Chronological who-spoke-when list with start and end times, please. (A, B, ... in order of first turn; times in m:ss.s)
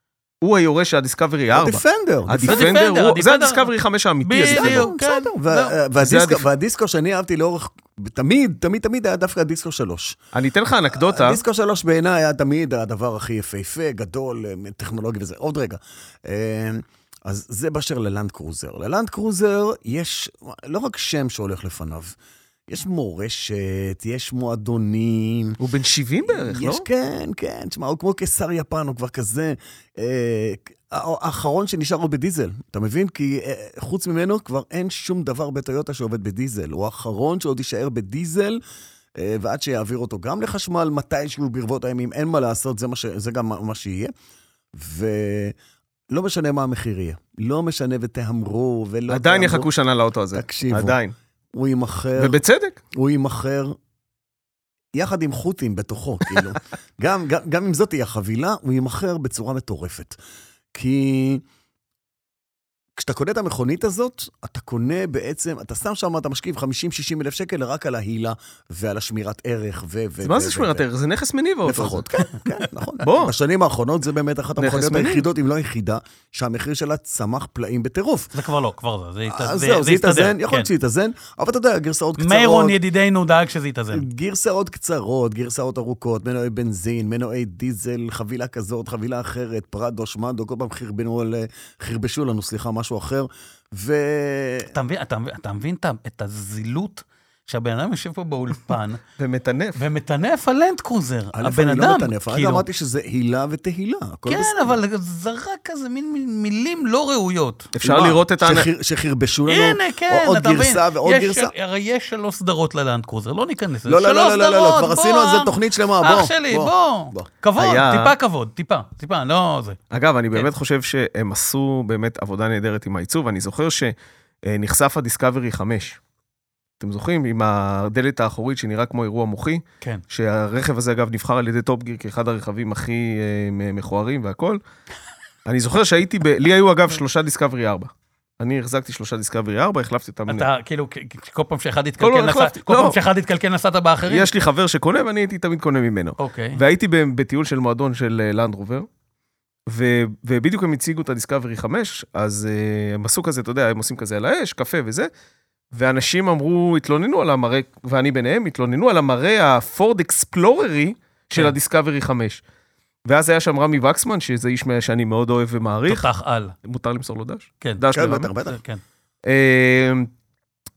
0:00.4-0:04.9 A
0:01.5-0:02.7 B
0:02.4-0:03.7 C
0:04.2-0:05.7 C
0:04.5-0:10.2 B
0:06.0-0:06.4 A
0:10.3-0:11.4 A
0:10.9-0:22.2 B
0:22.7-0:25.6 B
0:25.6-0:26.8 A
0:26.2-0:38.6 B
0:39.2-0:44.1 B
0:44.7-0:45.5 B
0:46.1-0:49.7 B
0:49.1-0:51.1 A
0:50.3-0:51.0 B
0:51.5-0:52.4 B
0:52.2-0:52.8 A
0:52.9-0:53.8 B
0:54.9-1:00.2 B
1:00.7-1:01.4 B
1:03.0-1:10.8 B
1:10.2-1:12.1 A
1:11.6-1:18.3 B
1:13.0-1:13.3 A
1:14.6-1:15.2 A
1:18.3-1:20.7 C
1:19.3-1:22.8 B
1:22.2-1:24.0 C
1:23.9-1:34.7 B
1:34.7-1:39.0 C
1:39.2-1:39.8 A
1:39.8-1:42.6 C
1:41.3-1:44.8 B
1:44.3-1:47.7 C
1:47.7-1:48.7 A
1:47.8-1:51.5 B
1:49.5-1:59.8 C
1:53.8-1:57.3 B
1:57.6-1:58.1 A
1:59.9-2:03.9 A
2:04.4-2:06.0 A
2:06.8-2:14.6 A
2:15.4-2:20.5 A
2:20.3-2:24.3 C
2:22.0-2:23.0 A
2:24.1-2:28.9 A
2:26.2-2:26.6 C
2:29.7-2:35.1 A
2:35.7-2:42.4 A
2:43.0-2:46.1 A
2:45.9-2:46.5 C
2:46.6-2:48.3 A
2:47.9-2:48.6 B
2:48.4-2:48.8 C
2:49.2-2:50.1 A